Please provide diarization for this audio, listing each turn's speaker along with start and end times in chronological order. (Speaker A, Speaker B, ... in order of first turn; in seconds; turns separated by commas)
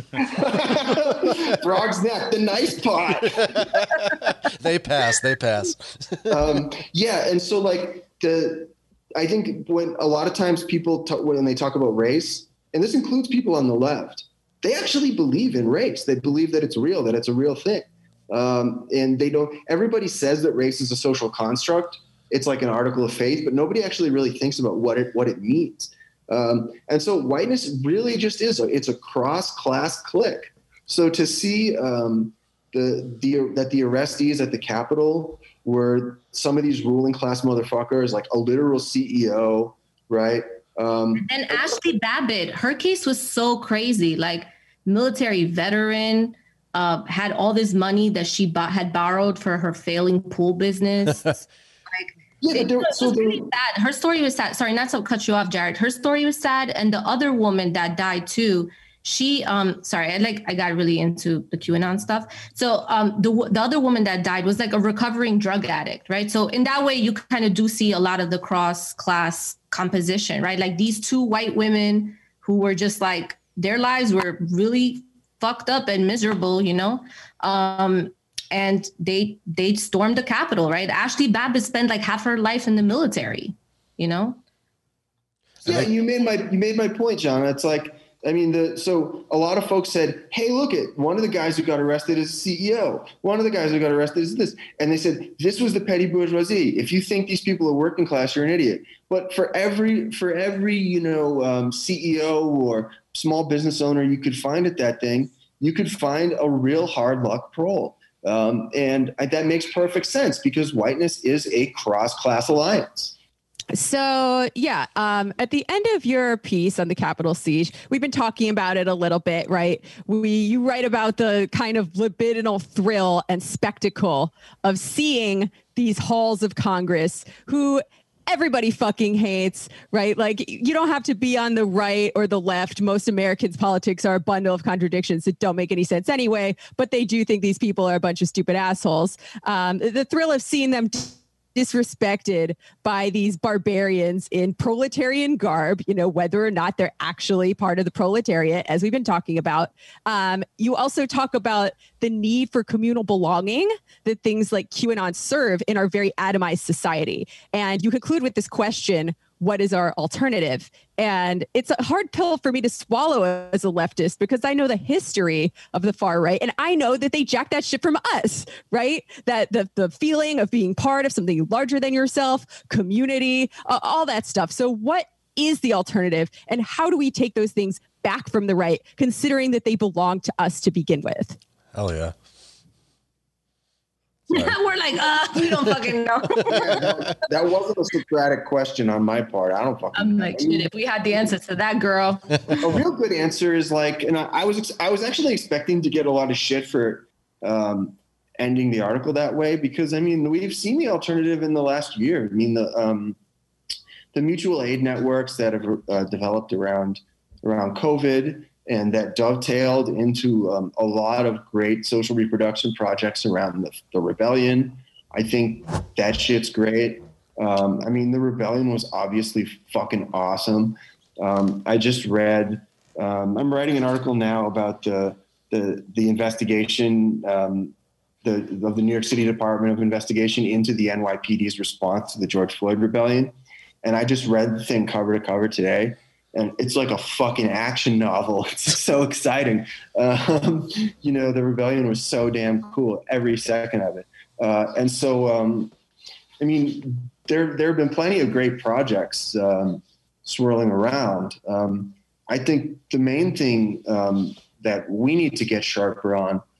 Speaker A: 0.1-4.1, Speaker B: 1.1-1.4, Speaker B: 3.4-6.6, Speaker A: 6.3-41.8, Speaker C: 41.1-84.4, Speaker A: 52.4-53.5, Speaker A: 85.6-113.1, Speaker D: 113.7-181.4, Speaker B: 181.7-182.1, Speaker C: 184.3-186.8, Speaker A: 186.4-190.7, Speaker C: 189.9-192.6, Speaker A: 192.6-203.2, Speaker A: 204.1-245.7, Speaker A: 246.4-256.4